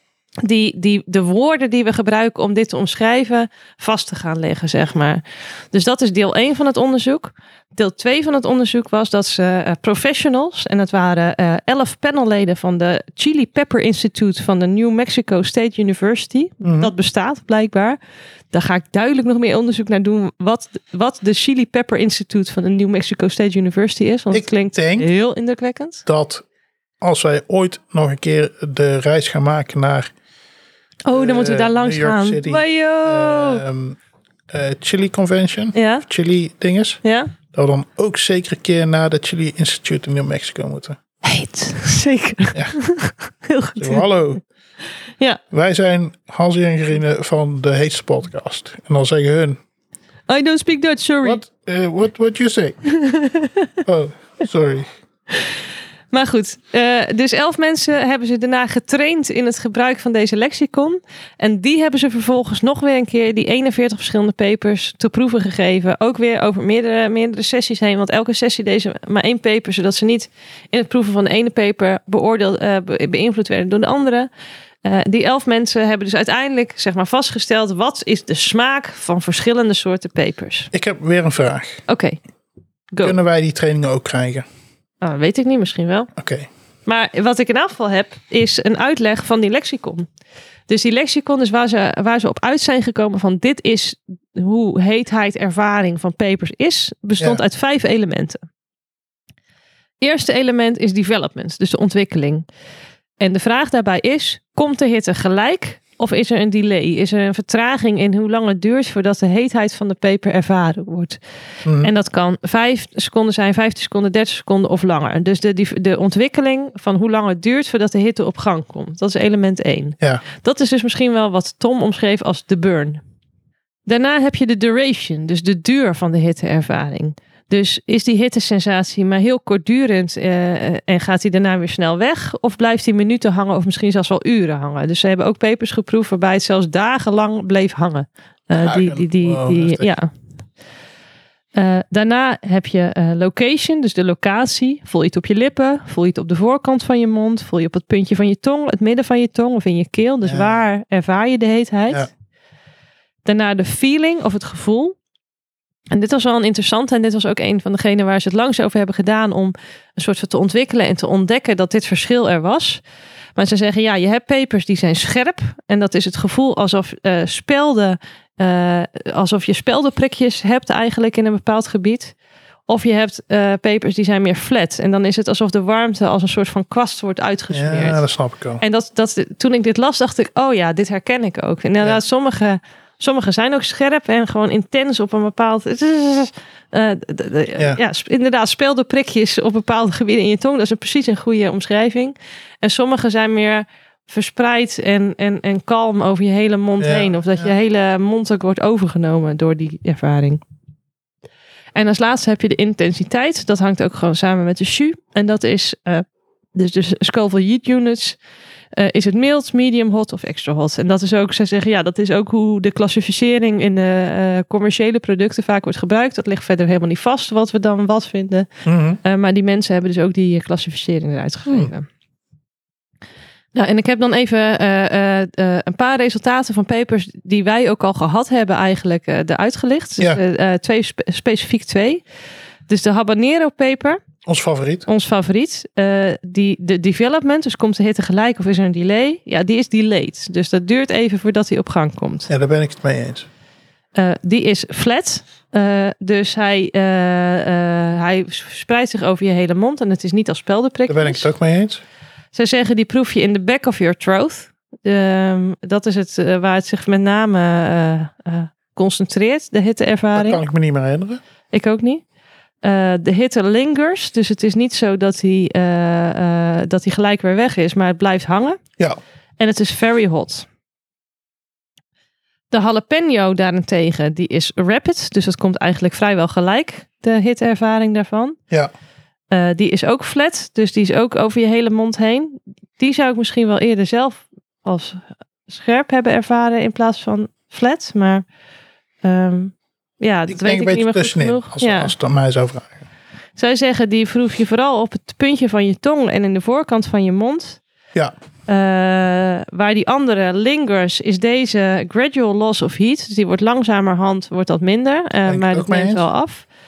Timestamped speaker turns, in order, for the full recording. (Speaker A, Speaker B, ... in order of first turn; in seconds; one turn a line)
Speaker A: 0.4-18.0
Speaker B: 16.6-16.9
Speaker A: 18.5-26.1
Speaker B: 24.3-25.1
Speaker B: 26.1-26.4
Speaker B: 27.0-30.1
Speaker A: 31.1-33.6
Speaker B: 31.1-34.0
Speaker B: 34.5-37.0
Speaker A: 35.7-36.0
Speaker A: 37.0-37.3
Speaker B: 37.5-41.0
Speaker A: 41.2-44.0
Speaker B: 43.8-44.4
Speaker B: 45.5-49.6
Speaker A: 50.3-51.4
Speaker B: 51.2-52.8
Speaker A: 52.9-53.7
Speaker B: 53.9-54.9
Speaker A: 56.1-74.3
Speaker A: 74.8-80.7
Speaker B: 80.7-81.8
Speaker A: 81.9-82.2
Speaker B: 83.0-84.5
Speaker A: 85.0-86.1
Speaker B: 86.2-86.5
Speaker A: 86.9-90.1
Speaker A: 90.7-98.4
Speaker A: 100.0-102.5
Speaker A: 103.2-111.2
Speaker B: 111.7-111.9
Speaker A: 111.8-123.0
Speaker A: 123.9-140.1
Speaker B: 138.5-139.9
Speaker A: 141.6-152.1
Speaker B: 150.2-150.6
Speaker A: 153.2-155.0
Speaker A: 155.9-162.8
Speaker A: 163.4-172.1
Speaker A: 172.7-178.0
Speaker B: 177.5-178.6
Speaker A: 178.6-200.4
Speaker B: 196.8-197.5
Speaker A: 201.8-208.2
Speaker A: 208.7-218.5
Speaker B: 218.7-219.0
Speaker A: 219.0-221.9
Speaker A: 223.5-232.0
Speaker A: 232.7-234.0
Speaker B: 234.3-234.9
Speaker A: 234.9-242.3
Speaker B: 242.3-243.3
Speaker A: 243.9-251.3
Speaker B: 250.9-251.8
Speaker A: 252.3-260.4
Speaker B: 260.1-261.2
Speaker A: 261.5-262.0
Speaker A: 262.6-268.6
Speaker A: 269.4-270.5
Speaker A: 272.5-278.4
Speaker A: 279.3-288.2
Speaker A: 289.0-291.9
Speaker B: 290.3-292.8
Speaker A: 293.4-297.6
Speaker A: 298.5-306.5
Speaker B: 305.3-306.0